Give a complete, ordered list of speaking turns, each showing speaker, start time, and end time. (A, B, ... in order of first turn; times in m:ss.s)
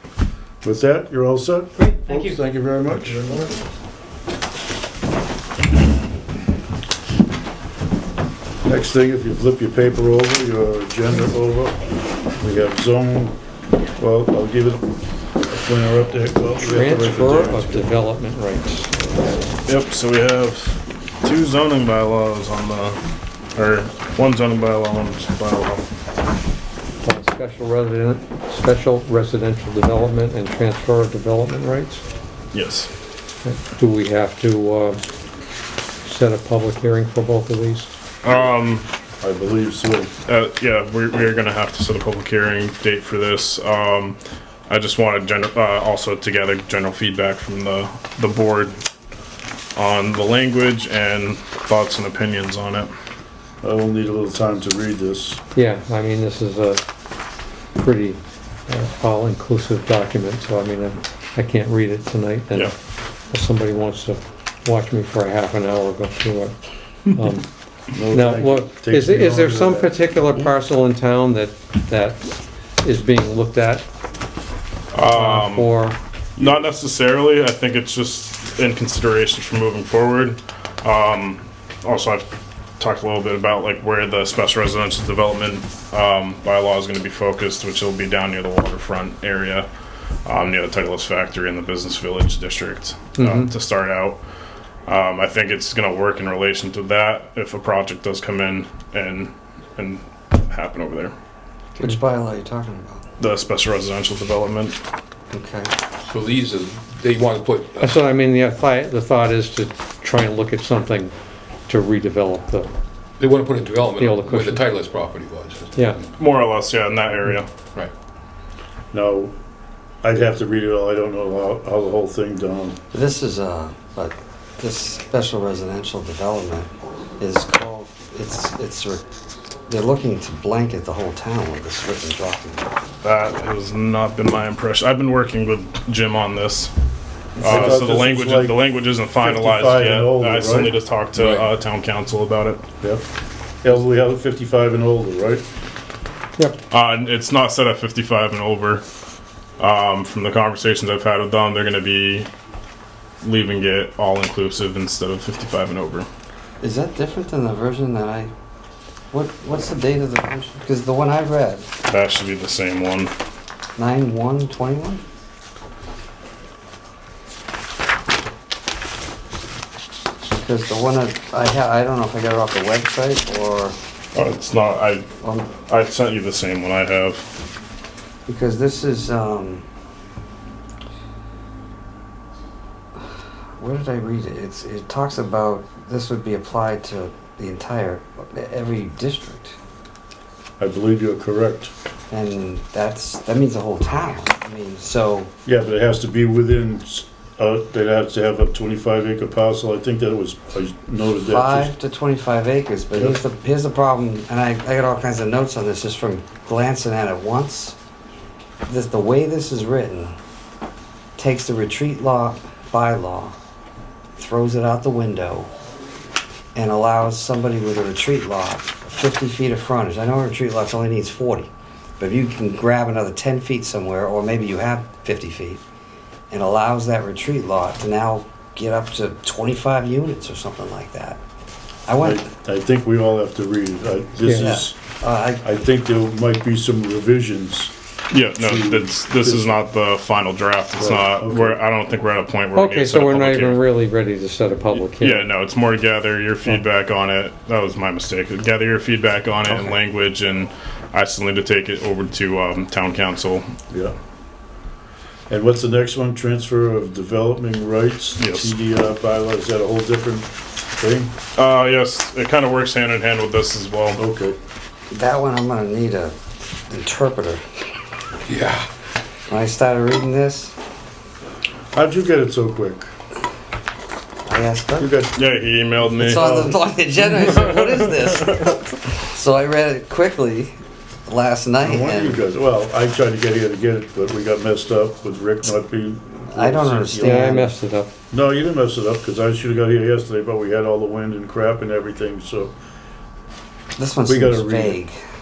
0:00.6-0:03.5 A
0:08.6-0:11.8 A
0:12.4-0:13.4 A
0:14.0-0:14.8 A
0:15.5-0:17.9 A
0:16.7-0:19.0 B
0:19.6-0:23.0 C
0:23.5-0:26.0 C
0:27.0-0:32.0 B
0:32.5-0:32.9 C
0:33.4-0:35.0 B
0:36.0-0:37.9 B
0:38.2-0:38.9 C
0:39.2-0:40.1 A
0:40.2-0:48.8 C
0:49.8-0:52.9 C
0:53.6-0:55.4 A
0:55.5-0:56.8 B
0:57.8-1:02.8 B
1:03.3-1:06.5 B
1:07.1-1:07.5 B
1:07.9-1:10.5 A
1:08.1-1:13.8 B
1:14.9-1:15.7 C
1:15.1-1:16.0 B
1:16.4-1:22.3 C
1:22.8-1:29.7 C
1:30.2-1:34.2 C
1:33.2-1:33.5 B
1:34.9-1:41.1 C
1:41.8-1:43.0 D
1:43.2-1:44.8 C
1:45.3-1:45.7 D
1:46.1-1:48.0 E
1:47.8-1:51.1 B
1:51.7-1:52.7 B
1:53.2-1:55.8 E
1:54.0-1:54.7 B
1:55.7-1:56.0 B
1:56.2-1:57.5 C
1:58.9-1:59.3 A
2:00.0-2:02.8 A
2:02.9-2:09.0 D
2:09.7-2:12.7 D
2:13.0-2:16.7 C
2:17.4-2:22.6 C
2:17.4-2:18.6 A
2:19.2-2:20.8 A
2:21.2-2:21.4 E
2:23.6-2:25.4 A
2:26.7-2:28.8 C
2:29.6-2:32.3 C
2:33.2-2:36.1 C
2:36.6-2:38.3 D
2:39.1-2:41.7 D
2:41.8-2:43.1 C
2:43.8-2:45.0 D
2:50.3-2:53.8 D
2:54.1-2:57.2 C
2:55.2-2:55.5 D
2:58.3-2:59.6 D
3:03.6-3:09.6 D
3:10.6-3:11.7 A
3:12.1-3:15.3 D
3:15.4-3:21.7 A
3:21.3-3:27.8 D
3:28.6-3:30.2 D
3:31.2-3:33.4 D
3:34.2-3:35.5 D
3:36.5-3:45.6 D
3:46.3-3:51.2 D
3:51.9-3:52.3 D
3:52.0-3:54.8 A
3:54.2-3:54.6 B
3:54.4-3:55.4 D
3:55.4-3:57.7 A
3:58.1-4:03.6 C
3:58.4-3:59.6 A
4:00.8-4:01.6 A
4:02.5-4:05.3 B
4:04.8-4:13.5 C
4:13.7-4:13.9 A
4:15.3-4:21.1 A
4:18.2-4:18.5 C
4:21.4-4:24.0 C
4:24.0-4:24.4 A
4:24.9-4:26.2 D
4:26.7-4:27.4 D
4:28.3-4:28.7 E
4:29.3-4:30.5 D
4:31.7-4:32.9 A
4:34.2-4:34.9 D
4:34.8-4:35.3 A
4:35.2-4:36.6 C
4:36.0-4:42.2 D
4:41.6-4:47.4 A
4:46.3-4:47.5 D
4:47.0-4:47.9 B
4:48.1-4:52.5 A
4:53.8-4:55.0 D
4:54.0-4:54.8 A